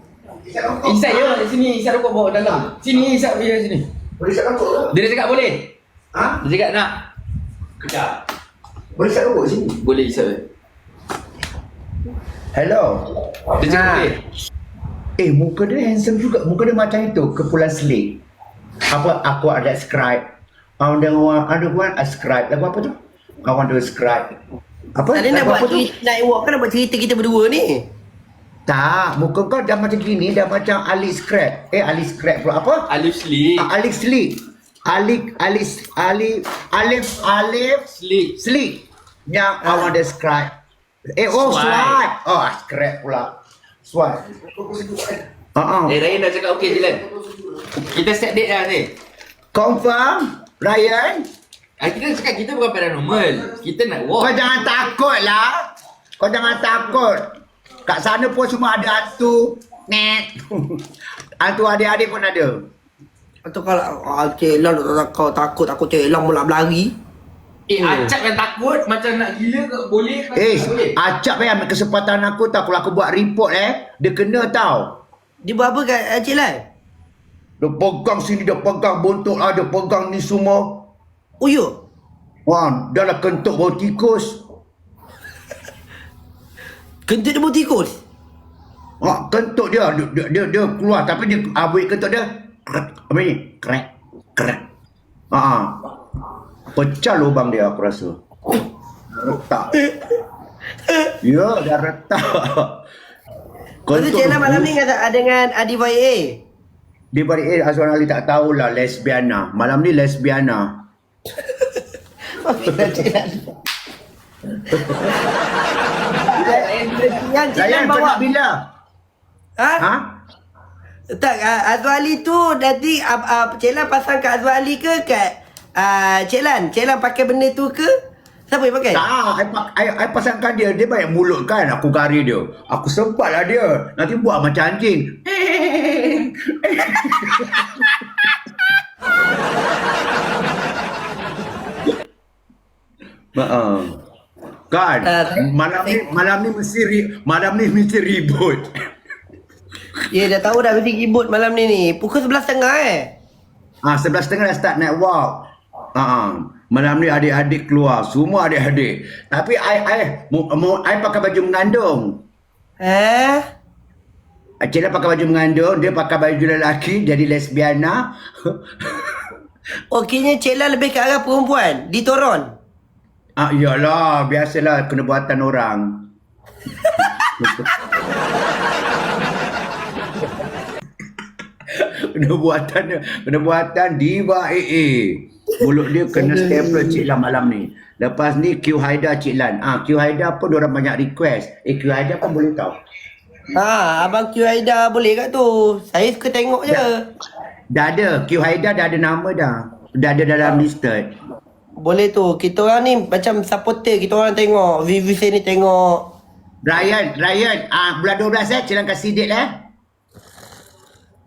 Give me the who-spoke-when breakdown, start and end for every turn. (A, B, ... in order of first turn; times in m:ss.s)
0:00.4-0:01.4 A
0:00.8-0:03.8 B
0:04.2-0:04.9 A
0:04.9-0:05.7 B
0:06.1-0:06.4 A
0:06.4-0:06.9 B
0:07.8-0:08.1 A
0:09.0-0:09.8 A
0:09.8-0:10.4 B
0:12.5-0:13.2 A
0:13.6-0:14.2 B
0:13.6-0:14.1 C
0:15.2-0:18.2 A
0:18.9-0:20.2 A
0:20.8-0:24.4 A
0:25.0-0:25.9 A
0:25.1-0:27.8 C
0:28.7-0:32.8 A
0:32.9-0:33.7 B
0:33.6-0:37.8 A
0:37.9-0:38.3 B
0:38.4-0:40.5 A
0:41.2-0:43.3 A
0:41.3-0:42.0 B
0:43.8-0:44.2 A
0:45.5-0:46.0 A
0:45.9-0:47.0 B
0:47.8-0:48.9 B
0:49.5-0:51.2 A
0:51.8-0:54.3 B
0:54.2-0:55.6 A
0:56.2-0:57.2 A
0:57.8-1:00.8 A
1:01.4-1:02.6 A
1:03.4-1:06.9 C
1:07.7-1:10.9 B
1:07.8-1:08.1 C
1:10.3-1:15.0 A
1:15.4-1:16.6 C
1:17.6-1:20.8 A
1:21.4-1:21.7 C
1:22.4-1:24.4 A
1:27.0-1:28.0 C
1:29.0-1:34.6 A
1:35.3-1:35.9 A
1:36.7-1:38.2 A
1:39.2-1:39.7 A
1:41.2-1:42.8 A
1:43.9-1:44.7 A
1:43.9-1:46.4 C
1:47.1-1:50.7 A
1:52.3-1:53.5 C
1:52.7-1:53.0 A
1:54.7-1:55.2 A
1:56.3-1:58.2 C
1:56.4-1:56.7 A
1:56.7-1:57.1 B
1:57.5-1:58.5 A
1:59.6-1:59.8 C
1:59.8-2:00.1 A
2:01.1-2:07.9 C
2:08.5-2:09.0 C
2:08.9-2:17.9 A
2:23.4-2:24.0 A
2:24.7-2:28.7 A
2:25.0-2:26.0 C
2:30.1-2:33.1 C
2:33.8-2:42.2 A
2:42.8-2:43.4 C
2:44.6-2:49.1 A
2:49.9-2:52.5 C
2:53.4-2:56.0 A
2:57.4-2:57.7 A
3:01.7-3:12.8 A
3:06.1-3:07.0 C
3:13.5-3:17.0 C
3:17.7-3:21.1 A
3:21.8-3:26.1 C
3:26.6-3:29.5 A